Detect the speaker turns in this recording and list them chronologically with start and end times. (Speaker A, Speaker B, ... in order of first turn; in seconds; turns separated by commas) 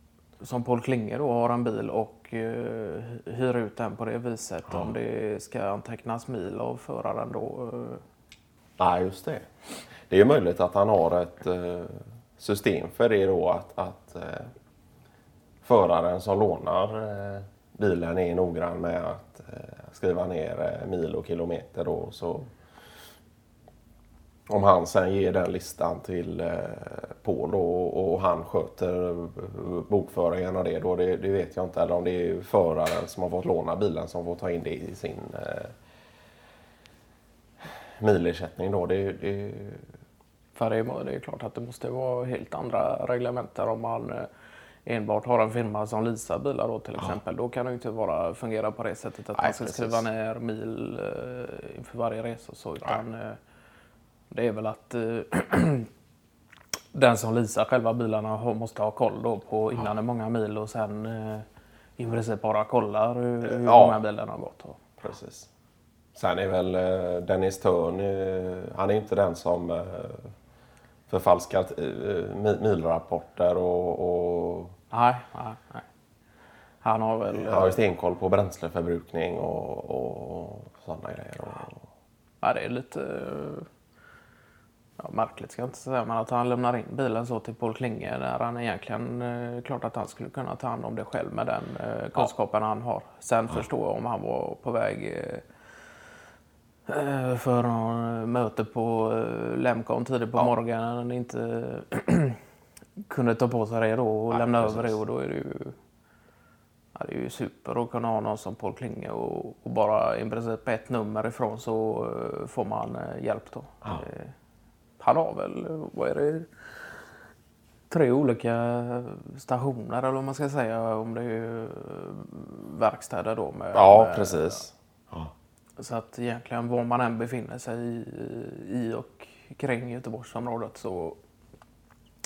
Speaker A: 0.4-8.0, Speaker B: 8.8-9.5, Speaker B: 10.1-14.5, Speaker B: 15.6-22.5, Speaker B: 24.5-35.7, Speaker B: 38.0-39.9, Speaker A: 40.5-44.3, Speaker A: 44.8-53.4, Speaker B: 49.3-50.0, Speaker A: 54.3-55.9, Speaker A: 56.9-61.4, Speaker A: 62.0-64.8, Speaker B: 63.4-64.0, Speaker B: 65.0-65.5, Speaker B: 66.1-70.3, Speaker B: 71.1-74.7, Speaker A: 74.9-75.8, Speaker A: 76.8-77.8, Speaker B: 77.3-81.8, Speaker A: 82.4-83.7, Speaker A: 85.0-95.4, Speaker A: 96.9-102.4, Speaker A: 103.0-105.7, Speaker B: 104.3-105.0, Speaker A: 106.9-114.3, Speaker A: 115.0-116.7, Speaker A: 117.9-124.6, Speaker B: 123.7-125.3, Speaker A: 125.8-131.2